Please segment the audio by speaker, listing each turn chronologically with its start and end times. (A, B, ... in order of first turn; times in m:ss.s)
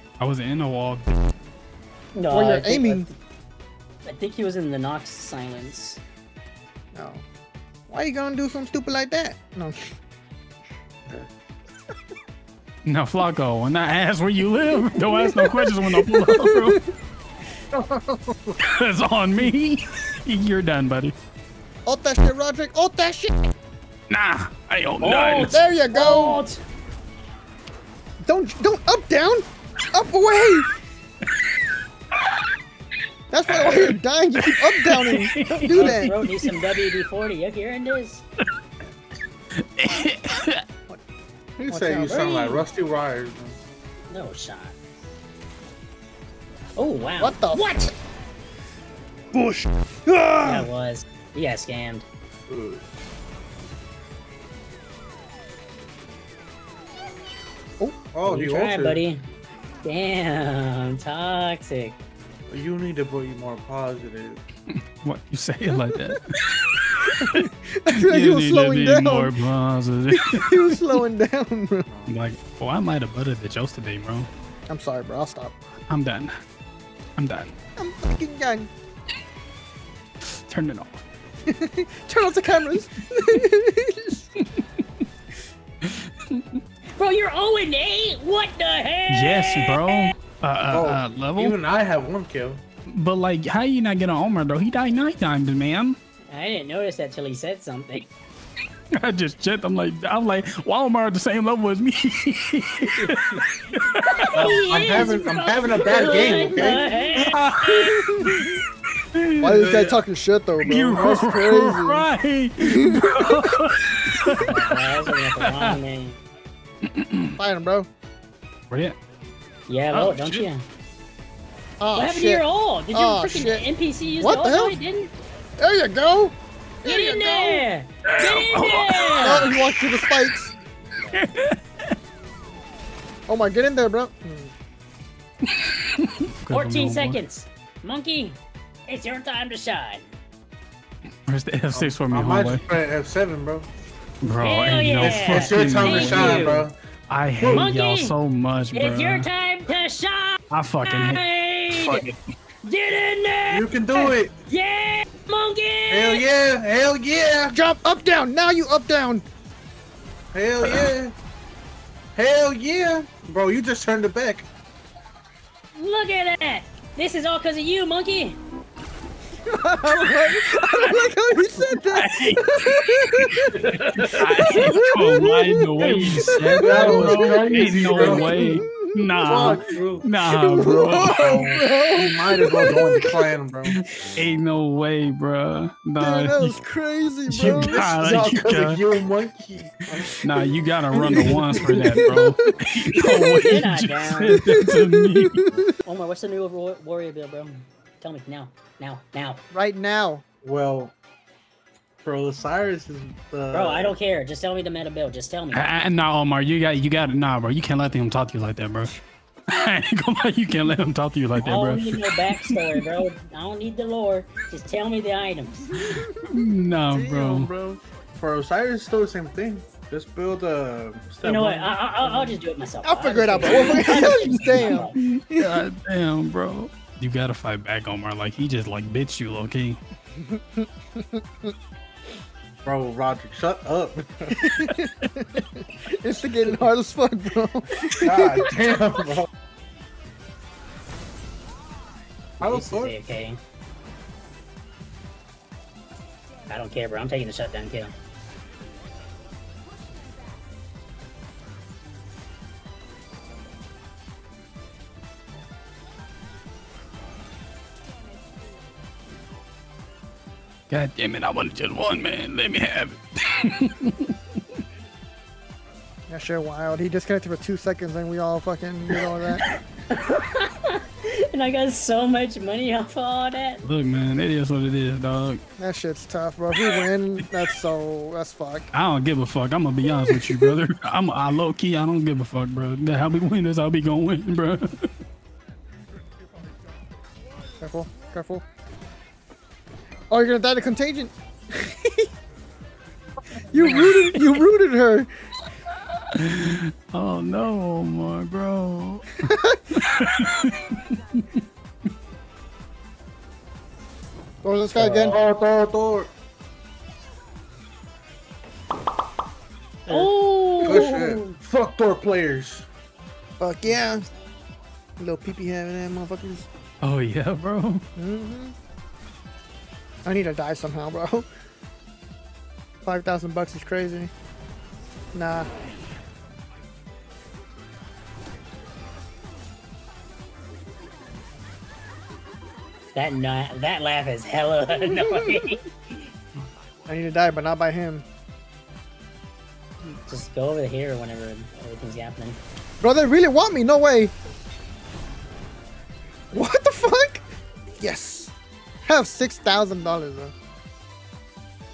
0:00.2-0:01.2 A
0:02.2-0:03.2 B
0:02.3-0:03.1 C
0:04.1-0:06.0 B
0:06.9-0:07.2 C
0:07.9-0:09.8 C
0:12.8-0:16.8 A
0:15.0-0:16.8 C
0:17.7-0:18.2 D
0:18.6-0:21.2 A
0:21.9-0:23.5 C
0:24.1-0:25.6 A
0:25.0-0:26.6 B
0:25.5-0:26.4 C
0:28.2-0:30.7 C
0:33.3-0:36.2 C
0:33.5-0:36.6 A
0:35.7-0:38.2 B
0:39.7-0:40.6 A
0:41.6-0:43.6 D
0:41.7-0:42.2 C
0:42.0-0:42.6 B
0:44.1-0:44.8 B
0:46.8-0:47.9 B
0:47.2-0:47.9 C
0:49.3-0:50.7 C
0:50.4-0:52.0 B
0:52.5-0:52.8 D
0:58.1-0:59.0 D
0:58.2-0:59.2 B
0:59.8-1:02.0 B
1:02.5-1:04.4 D
1:04.8-1:07.5 A
1:05.7-1:06.2 C
1:07.2-1:09.3 C
1:08.0-1:10.8 A
1:10.2-1:11.9 C
1:11.9-1:12.1 D
1:12.1-1:14.3 A
1:14.7-1:15.5 C
1:15.9-1:16.3 A
1:17.2-1:17.5 A
1:17.8-1:18.7 C
1:20.5-1:21.0 A
1:21.5-1:24.3 C
1:25.8-1:26.4 A
1:27.0-1:30.1 B
1:29.1-1:31.6 A
1:30.7-1:32.6 D
1:32.9-1:36.0 A
1:36.3-1:38.1 B
1:38.9-1:44.6 A
1:43.0-1:43.4 B
1:44.2-1:48.0 B
1:44.4-1:46.8 D
1:46.2-1:46.8 C
1:47.1-1:48.6 A
1:48.0-1:48.5 C
1:49.1-1:49.9 A
1:49.4-1:52.1 C
1:50.6-1:54.6 A
1:52.6-1:53.2 C
1:54.4-1:56.2 B
1:55.4-1:55.8 A
1:56.9-1:57.3 A
1:57.4-1:57.9 C
1:58.7-1:59.0 A
1:59.7-2:00.6 B
1:59.9-2:00.4 A
2:01.8-2:03.7 C
2:01.9-2:05.1 B
2:04.2-2:04.8 C
2:05.6-2:07.6 C
2:06.8-2:09.6 B
2:08.1-2:10.2 A
2:09.2-2:10.5 C
2:11.0-2:11.6 A
2:13.3-2:14.5 C
2:15.6-2:17.2 A
2:16.5-2:20.0 B
2:21.3-2:22.6 A
2:21.7-2:23.7 D
2:24.2-2:29.3 A
2:24.4-2:26.7 B
2:25.0-2:26.8 D
2:27.4-2:27.7 D
2:27.5-2:28.2 B
2:28.7-2:32.0 B
2:30.5-2:32.2 A
2:32.6-2:36.2 B
2:33.5-2:34.3 D
2:35.9-2:37.6 D
2:37.5-2:39.2 C
2:40.3-2:41.2 D
2:40.6-2:40.9 A
2:42.2-2:44.5 D
2:45.8-2:48.4 B
2:49.5-2:59.6 C
2:50.6-2:51.1 B
2:51.9-2:53.2 A
2:54.1-3:01.5 A
2:55.9-2:58.5 D
2:59.2-3:00.1 D
3:00.3-3:03.2 C
3:01.0-3:03.8 D
3:04.1-3:06.6 A
3:06.0-3:07.9 C
3:07.3-3:08.8 A
3:07.6-3:10.2 D
3:10.2-3:15.4 A
3:10.9-3:13.4 C
3:13.4-3:14.4 B
3:14.3-3:15.6 C
3:15.8-3:19.4 B
3:19.5-3:20.2 C
3:20.4-3:20.9 D
3:22.0-3:24.0 D
3:23.5-3:25.8 B
3:25.5-3:28.9 A
3:29.5-3:32.8 A
3:31.4-3:35.6 B
3:35.8-3:36.2 C
3:35.8-3:37.5 A
3:36.9-3:41.8 D
3:41.2-3:45.0 B
3:42.8-3:45.6 C
3:43.4-3:49.8 A
3:50.3-3:51.5 C
3:52.6-3:54.4 D
3:54.4-3:58.5 C
3:58.0-3:59.3 D
4:02.4-4:03.4 B
4:02.4-4:03.0 D
4:06.5-4:07.9 B
4:20.7-4:24.1 A
4:26.1-4:29.4 C
4:29.5-4:33.7 B
4:33.6-4:35.4 A
4:35.6-4:38.7 C
4:38.7-4:44.9 A
4:47.6-4:48.4 C
4:50.1-4:52.1 C
4:53.5-4:55.1 C
4:53.6-4:53.9 A
4:56.1-4:59.2 A
4:59.2-4:59.6 C
4:59.8-5:01.2 A
5:04.4-5:05.2 C
5:04.7-5:06.1 D
5:09.9-5:11.4 B
5:10.6-5:12.7 D
5:13.4-5:14.1 C
5:15.0-5:16.5 C
5:16.8-5:17.8 A
5:18.0-5:18.5 C
5:20.0-5:21.3 C
5:22.8-5:24.1 C
5:25.1-5:25.5 C
5:32.9-5:35.7 B
5:36.9-5:38.0 C
5:40.1-5:42.4 B
5:42.8-5:44.1 C
5:46.3-5:47.2 C
5:47.8-5:48.3 C
5:48.9-5:50.3 C